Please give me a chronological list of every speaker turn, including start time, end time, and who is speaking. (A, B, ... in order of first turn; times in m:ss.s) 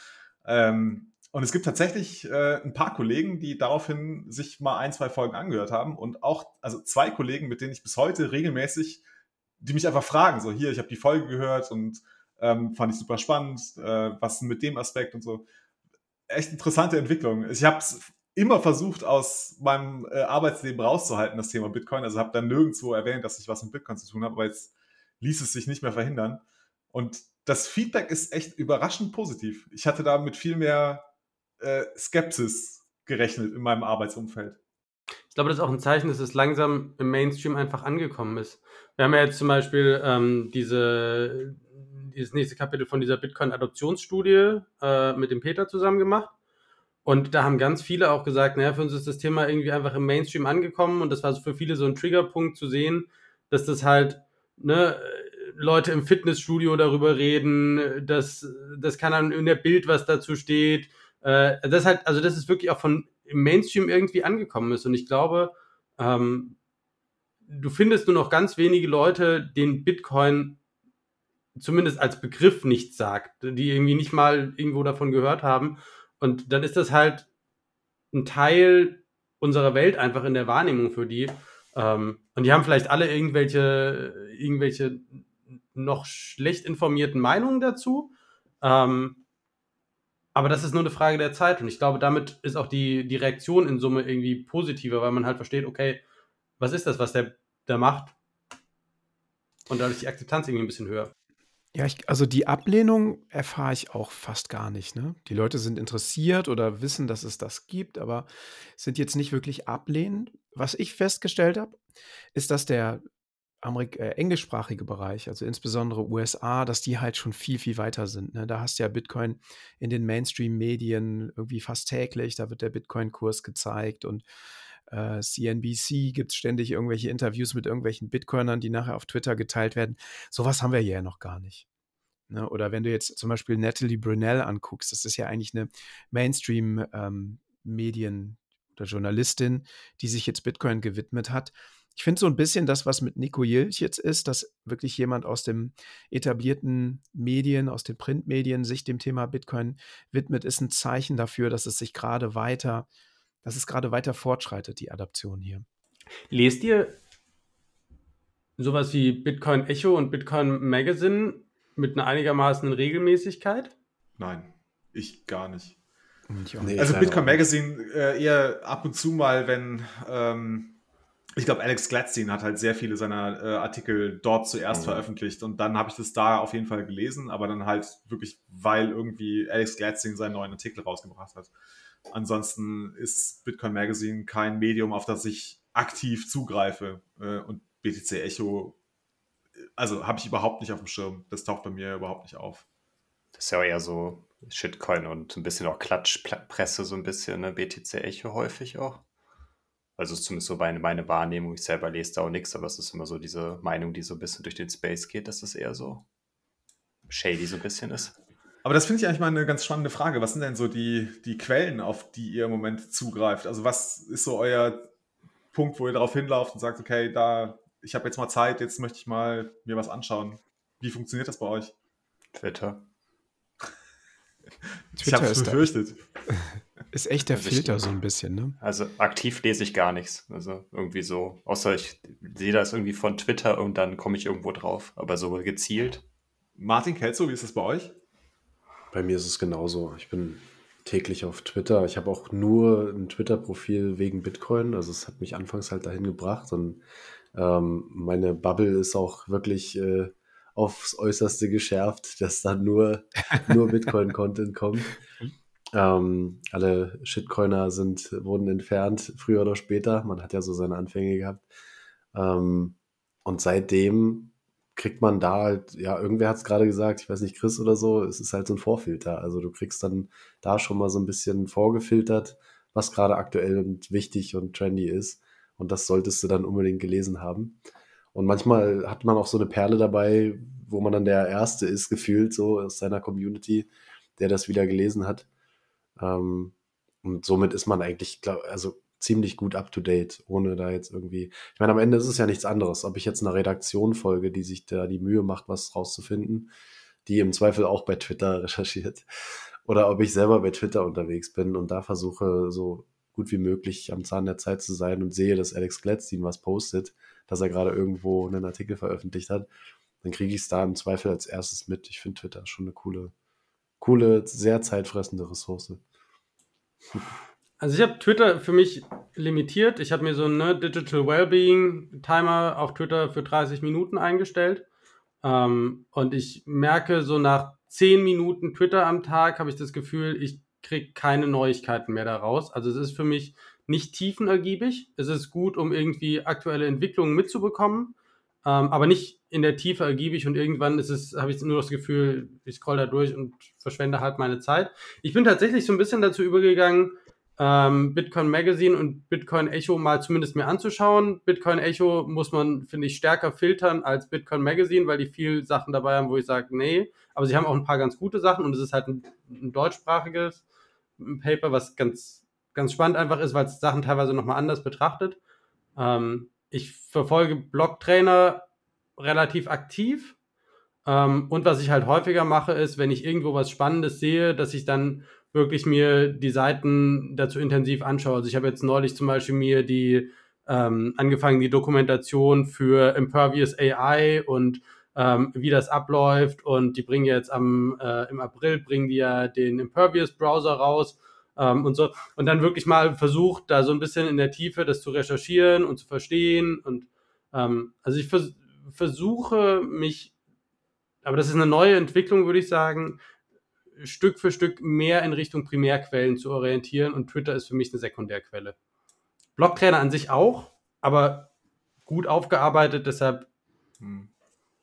0:00.4-0:09.0 A
0:09.6-0:15.4 A
0:16.3-0:26.4 A
0:26.9-0:31.1 A
0:31.6-0:34.6 A
0:35.3-0:46.3 B
0:47.0-1:06.6 B
1:07.5-1:10.6 B
1:11.6-1:17.3 B
1:18.1-1:25.2 B
1:25.7-1:29.2 B
1:30.3-1:36.0 B
1:36.6-1:38.1 B
1:39.7-1:41.1 B
1:41.8-1:51.8 C
1:52.3-1:53.0 C
1:53.6-2:04.2 C
2:04.9-2:11.6 C
2:12.3-2:32.9 C
2:33.4-2:35.6 C
2:36.3-2:36.9 B
2:38.6-2:43.7 B
2:44.2-2:45.7 A
2:46.3-2:46.8 C
2:46.6-2:47.4 D
2:46.8-2:50.8 A
2:51.4-3:01.5 A
2:54.7-2:55.1 E
3:02.1-3:08.8 A
3:09.8-3:12.6 A
3:13.4-3:19.0 E
3:20.0-3:26.0 E
3:27.1-3:28.1 E
3:28.6-3:34.9 A
3:35.5-3:41.7 A
3:42.4-3:42.8 E
3:44.9-3:46.0 A
3:45.0-3:45.7 C
3:46.3-3:48.6 C
3:47.3-3:47.9 E
3:48.6-3:56.0 E
3:56.6-3:57.9 A
3:58.9-4:06.8 D
4:07.3-4:15.0 D
4:15.7-4:21.4 D
4:22.1-4:37.6 D
4:38.1-4:45.3 D
4:46.0-4:56.5 D
4:57.0-4:59.1 D
4:59.6-5:09.5 D
5:10.0-5:13.1 D
5:13.8-5:15.8 D
5:17.6-5:24.6 B
5:25.2-6:00.4 B
6:01.0-6:05.2 B
6:05.8-6:08.4 B
6:09.0-6:10.1 B
6:10.8-6:40.1 B
6:41.0-6:43.0 B
6:43.8-6:48.6 B
6:49.4-6:51.3 B
6:51.9-6:53.3 B
6:53.8-6:54.1 A